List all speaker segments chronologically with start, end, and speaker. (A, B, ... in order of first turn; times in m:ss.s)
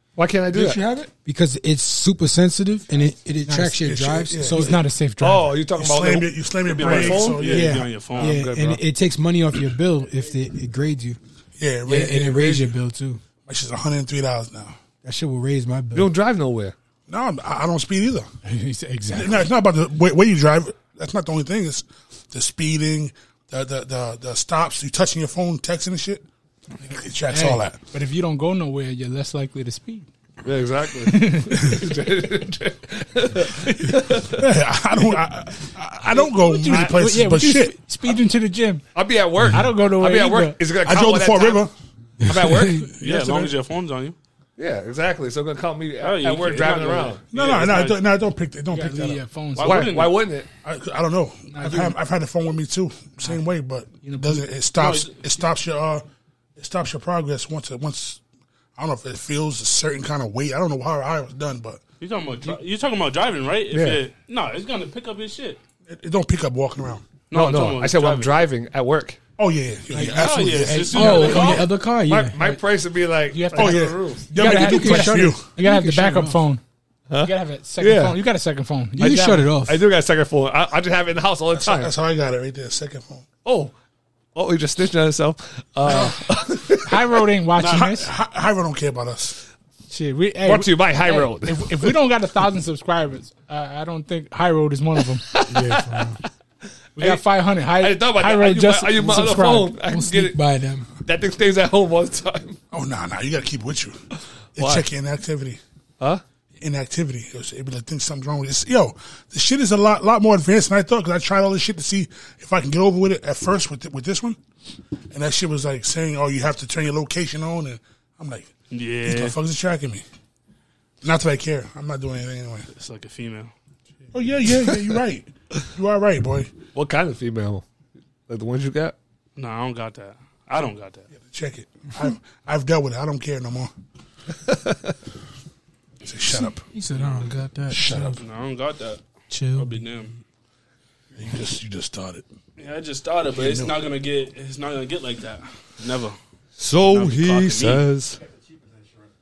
0:00.2-0:00.9 A
0:00.5-0:01.1 B
0:01.2-0:04.8 C
0:03.5-0:03.8 D
0:03.8-0:04.8 B
0:04.4-0:05.5 D
0:05.2-0:08.8 A
0:05.7-0:07.8 B
0:06.6-0:08.4 E
0:07.4-0:11.2 C
0:11.6-0:12.7 B
0:11.8-0:13.2 C
0:13.4-0:14.8 B
0:15.0-0:16.1 C
0:15.9-0:16.7 A
0:17.1-0:18.3 B
0:18.4-0:19.5 D
0:19.1-0:26.2 B
0:26.8-0:27.8 B
0:27.3-0:30.1 D
0:30.4-0:34.5 A
0:31.0-0:31.8 D
0:33.6-0:34.0 D
0:34.2-0:37.8 B
0:36.0-0:37.1 A
0:36.2-0:38.9 D
0:38.9-0:41.6 A
0:39.4-0:39.7 C
0:39.5-0:40.6 D
0:40.8-0:41.7 B
0:42.2-0:42.9 C
0:42.2-0:42.9 A
0:42.7-0:43.5 B
0:43.0-0:44.2 E
0:44.6-0:47.3 A
0:46.0-0:48.0 E
0:47.3-0:49.2 B
0:48.7-0:49.9 D
0:49.6-0:50.2 E
0:49.6-0:50.5 A
0:50.6-0:56.0 B
0:51.5-0:52.0 D
0:54.0-0:54.4 D
0:54.8-0:55.2 E
0:56.6-0:58.2 B
0:58.8-1:01.8 B
1:02.0-1:05.6 E
1:03.7-1:04.0 A
1:05.9-1:07.1 B
1:07.3-1:08.4 E
1:07.3-1:09.2 A
1:09.4-1:11.4 B
1:09.9-1:11.7 D
1:10.1-1:11.7 E
1:10.9-1:12.4 C
1:12.0-1:14.6 A
1:13.3-1:16.6 D
1:13.5-1:15.5 B
1:14.4-1:16.4 C
1:17.1-1:18.2 A
1:17.2-1:19.5 D
1:19.0-1:19.8 C
1:19.6-1:21.9 A
1:21.5-1:23.2 B
1:23.4-1:23.7 A
1:24.3-1:27.0 A
1:25.8-1:26.2 B
1:26.8-1:28.1 D
1:27.6-1:27.8 E
1:27.6-1:29.4 B
1:29.9-1:35.2 D
1:30.4-1:31.9 A
1:35.2-1:36.2 A
1:35.4-1:36.2 C
1:37.0-1:40.4 A
1:37.0-1:39.7 D
1:39.8-1:40.9 C
1:41.0-1:42.6 A
1:42.7-1:44.0 B
1:44.5-1:45.6 B
1:44.6-1:44.8 A
1:46.6-1:54.4 B
1:55.1-1:58.5 B
1:58.7-1:59.4 E
1:59.0-2:00.0 B
2:01.0-2:02.7 B
2:02.7-2:03.5 E
2:04.1-2:06.5 B
2:06.7-2:07.6 A
2:08.3-2:09.0 A
2:09.4-2:11.0 E
2:11.2-2:13.7 B
2:14.4-2:14.9 A
2:16.0-2:16.6 B
2:16.3-2:18.2 C
2:17.7-2:18.2 B
2:18.1-2:20.1 E
2:19.3-2:19.8 C
2:21.1-2:22.2 B
2:22.6-2:26.2 E
2:23.3-2:23.8 B
2:26.6-2:28.2 A
2:26.9-2:27.8 E